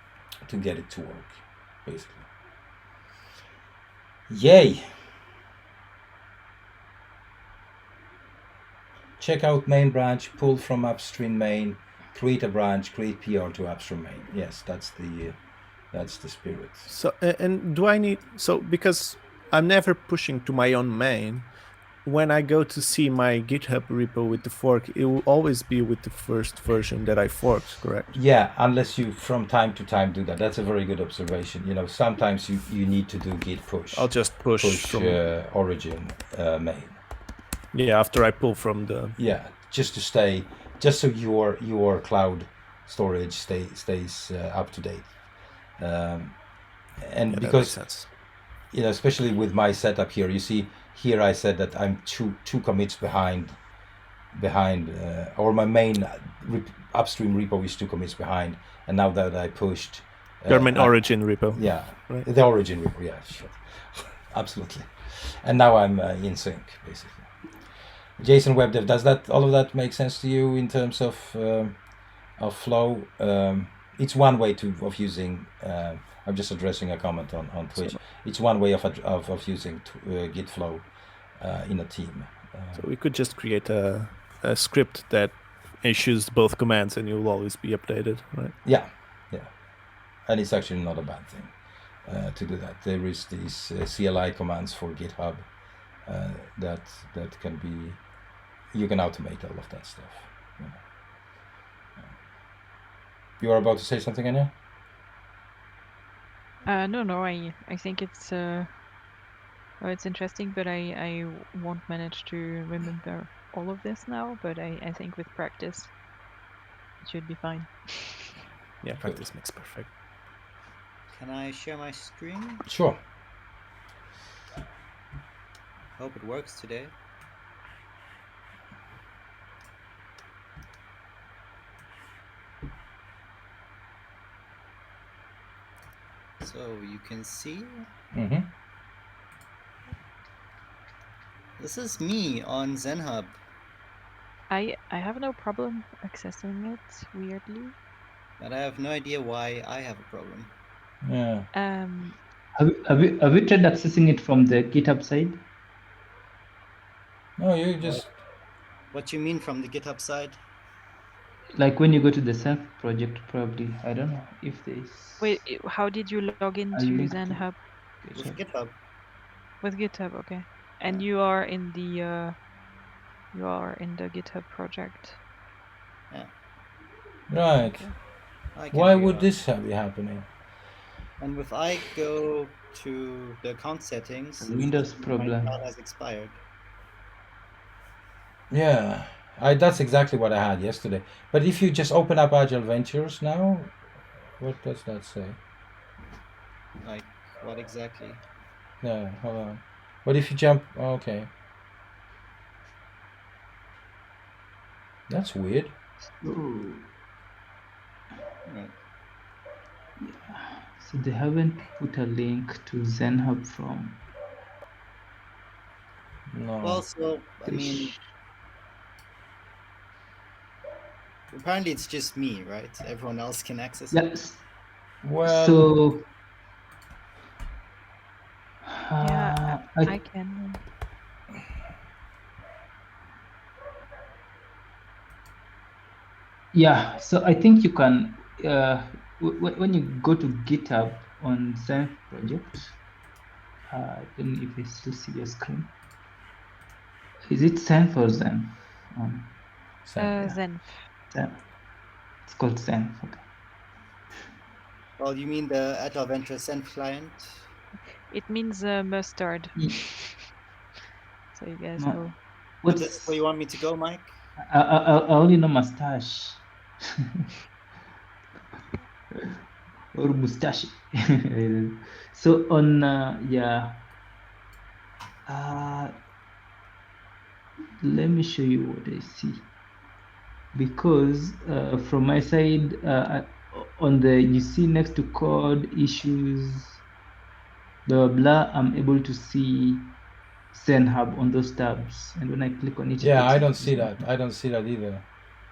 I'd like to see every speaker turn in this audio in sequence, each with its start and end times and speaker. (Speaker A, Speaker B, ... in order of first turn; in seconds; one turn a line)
Speaker A: 0.5-2.2
Speaker A: 4.3-4.8
Speaker A: 9.2-15.3
Speaker A: 15.9-16.9
Speaker B: 16.9-28.1
Speaker A: 28.1-37.0
Speaker B: 33.9-35.2
Speaker B: 37.7-39.1
Speaker A: 39.2-45.1
Speaker A: 45.8-46.4
Speaker A: 47.0-47.8
Speaker B: 47.3-48.1
Speaker A: 48.7-53.6
Speaker A: 54.3-67.3
Speaker B: 60.5-62.3
Speaker A: 68.2-71.8
Speaker A: 72.4-82.8
Speaker B: 82.7-88.5
Speaker A: 88.6-89.5
Speaker A: 90.3-95.5
Speaker A: 96.0-98.0
Speaker A: 98.7-100.8
Speaker A: 103.4-104.5
Speaker C: 106.7-108.8
Speaker C: 109.8-115.9
Speaker C: 117.0-118.3
Speaker B: 118.8-119.9
Speaker D: 121.1-122.6
Speaker A: 122.7-123.0
Speaker D: 126.0-126.9
Speaker D: 136.4-137.8
Speaker A: 138.1-138.5
Speaker D: 141.6-143.3
Speaker C: 144.5-147.7
Speaker D: 148.4-150.5
Speaker A: 151.0-151.5
Speaker C: 151.5-152.2
Speaker E: 152.6-155.4
Speaker A: 157.4-158.2
Speaker D: 158.9-160.4
Speaker E: 161.6-165.4
Speaker C: 165.2-167.6
Speaker E: 166.7-167.4
Speaker E: 168.0-168.4
Speaker D: 168.1-168.7
Speaker C: 169.6-172.4
Speaker C: 173.3-175.2
Speaker A: 177.3-177.9
Speaker C: 177.6-177.9
Speaker D: 178.5-179.3
Speaker A: 178.7-180.2
Speaker D: 181.2-186.3
Speaker E: 184.4-185.5
Speaker A: 188.5-193.8
Speaker A: 194.4-195.4
Speaker D: 196.8-198.2
Speaker A: 198.8-201.3
Speaker A: 205.1-205.7
Speaker E: 206.2-206.8
Speaker D: 208.4-208.7
Speaker E: 210.0-214.0
Speaker A: 216.3-216.8
Speaker D: 216.6-217.9
Speaker E: 217.5-218.0
Speaker D: 221.3-224.0
Speaker E: 223.9-224.4
Speaker A: 225.0-225.7
Speaker E: 225.2-226.0
Speaker E: 228.7-229.9
Speaker C: 229.0-230.6
Speaker E: 236.5-242.8
Speaker E: 243.7-245.7
Speaker E: 247.3-249.3
Speaker A: 249.8-250.2
Speaker C: 250.0-250.8
Speaker E: 251.1-251.4
Speaker E: 252.2-253.2
Speaker D: 255.0-257.4
Speaker C: 258.1-260.1
Speaker C: 261.3-262.1
Speaker E: 262.6-263.2
Speaker D: 262.7-264.1
Speaker E: 264.5-266.4
Speaker E: 269.9-273.7
Speaker E: 275.3-275.9
Speaker E: 277.8-279.5
Speaker E: 280.5-286.8
Speaker E: 287.9-289.9
Speaker E: 290.5-294.0
Speaker A: 293.0-295.1